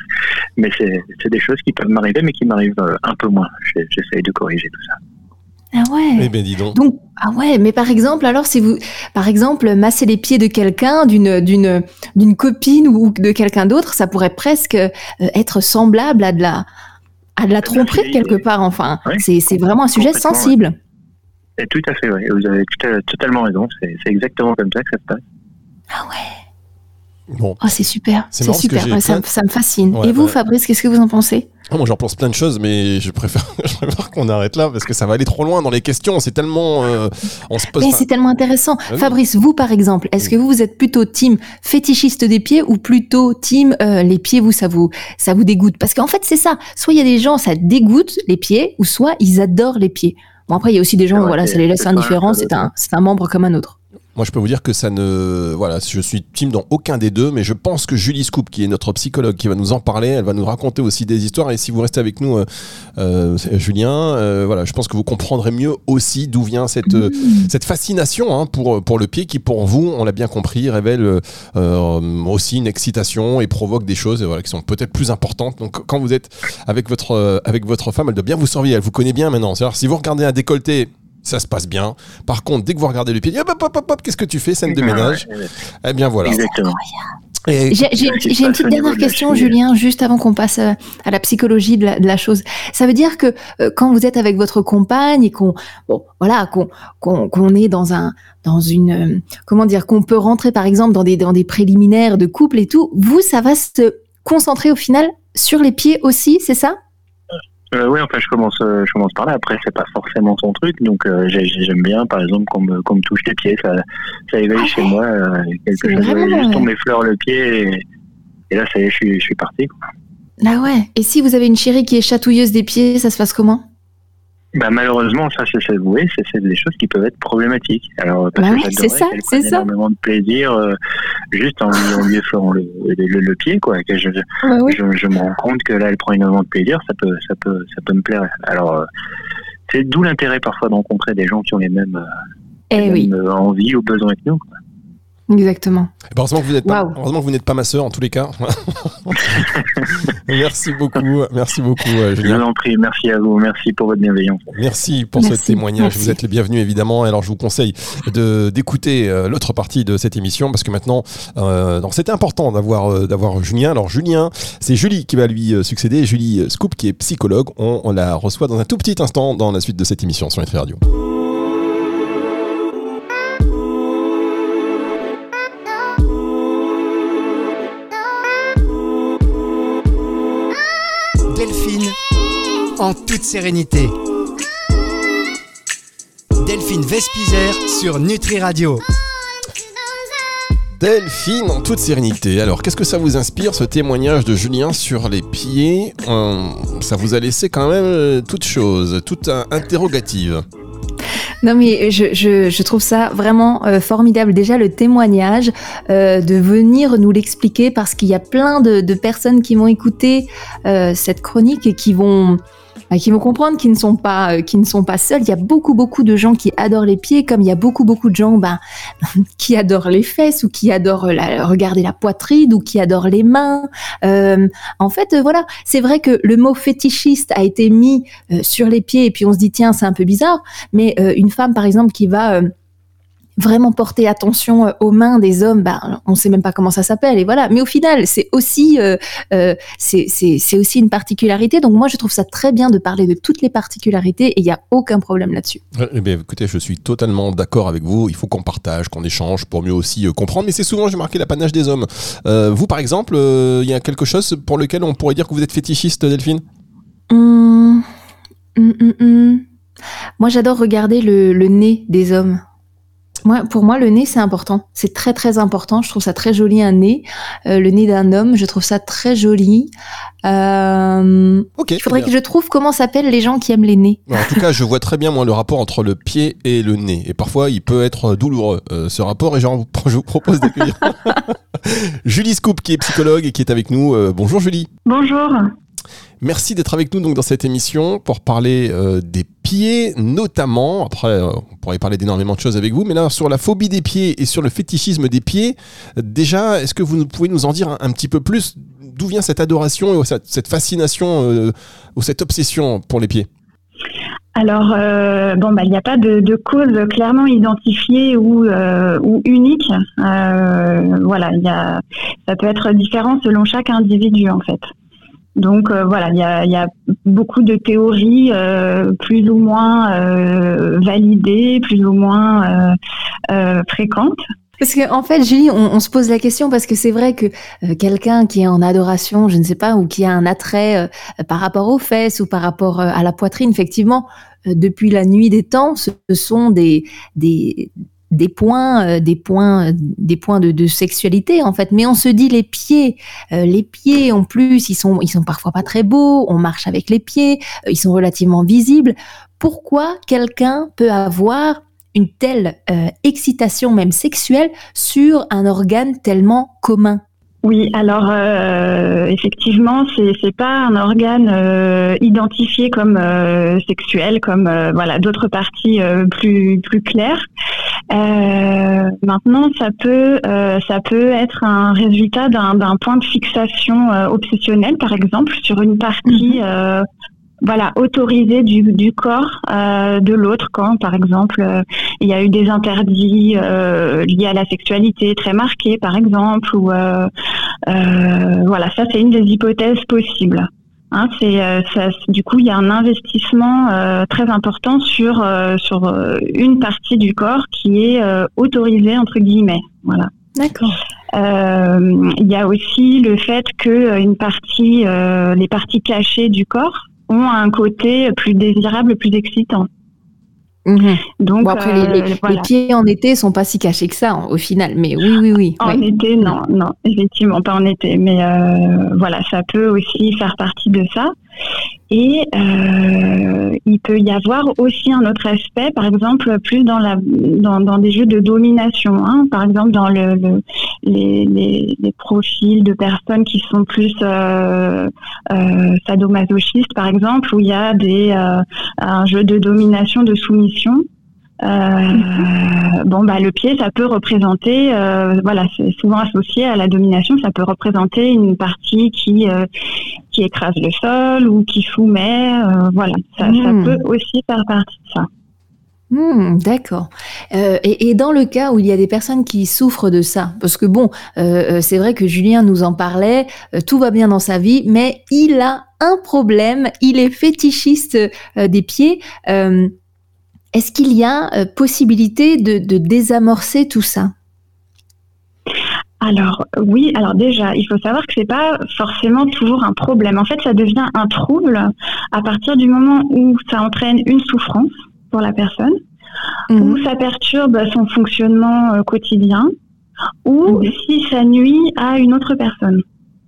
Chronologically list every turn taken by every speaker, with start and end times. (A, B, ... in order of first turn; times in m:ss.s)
0:00.6-0:05.0 A
0:05.7-0:16.6 B
0:06.2-0:06.8 C
0:17.4-0:20.8 B
0:17.6-0:18.4 A
0:20.0-0:20.5 A
0:21.6-0:25.2 A
0:25.9-0:26.3 B
0:27.3-0:27.6 C
0:27.6-0:31.5 B
0:28.3-0:29.2 C
0:29.9-0:30.4 C
0:31.7-0:38.0 C
0:37.8-0:53.8 B
0:38.9-0:39.2 C
0:51.1-0:52.6 A
0:54.2-1:02.4 C
1:03.0-1:25.3 C
1:07.0-1:07.5 B
1:24.7-1:25.5 A
1:25.8-1:26.4 C
1:26.2-1:26.8 A
1:27.5-1:27.9 C
1:27.7-1:46.8 B
1:27.9-1:29.5 A
1:47.7-1:57.8 A
1:55.8-1:56.7 B
1:58.5-1:59.7 A
2:00.4-2:03.6 B
2:04.5-2:10.8 A
2:08.4-2:09.7 B
2:11.3-2:18.8 A
2:14.4-2:14.8 B
2:19.7-2:22.0 A
2:22.7-2:23.1 B
2:22.8-2:24.4 A
2:25.3-2:25.9 B
2:26.1-2:32.4 C
2:26.6-2:27.0 B
2:32.2-2:34.4 A
2:34.5-2:50.8 C
2:35.2-2:36.1 B
3:01.3-3:01.9 D
3:02.8-3:03.9 D
3:06.4-3:08.8 D
3:10.8-3:20.4 C
3:21.4-3:38.6 B
3:39.2-3:52.5 B
3:53.4-4:05.6 B
4:05.7-4:16.4 C
4:17.1-4:17.8 B
4:18.6-4:19.4 B
4:20.2-4:22.4 B
4:23.2-4:29.7 B
4:30.2-4:34.1 B
4:31.6-4:32.1 C
4:34.1-4:44.7 C
4:44.8-4:45.5 E
4:46.2-5:03.3 C
5:04.4-5:14.7 E
5:15.4-5:22.8 E
5:23.3-5:24.2 E
5:24.6-5:57.0 B
5:57.4-6:07.2 E
6:07.9-6:16.8 E
6:16.1-6:16.4 B
6:17.4-6:27.1 E
6:27.7-6:40.1 E
6:40.4-6:40.8 B
6:41.1-6:49.7 E
6:50.6-6:56.4 B
6:51.2-6:52.5 E
6:55.6-7:01.1 E
7:01.9-7:20.8 E
7:21.4-7:29.5 E
7:30.1-7:35.1 E
7:33.2-7:33.8 B
7:35.9-7:49.7 B
7:50.5-7:54.1 B
7:56.0-8:05.8 E
8:06.5-8:06.8 B
8:06.6-8:09.5 E
8:10.2-8:12.8 E
8:10.5-8:10.7 B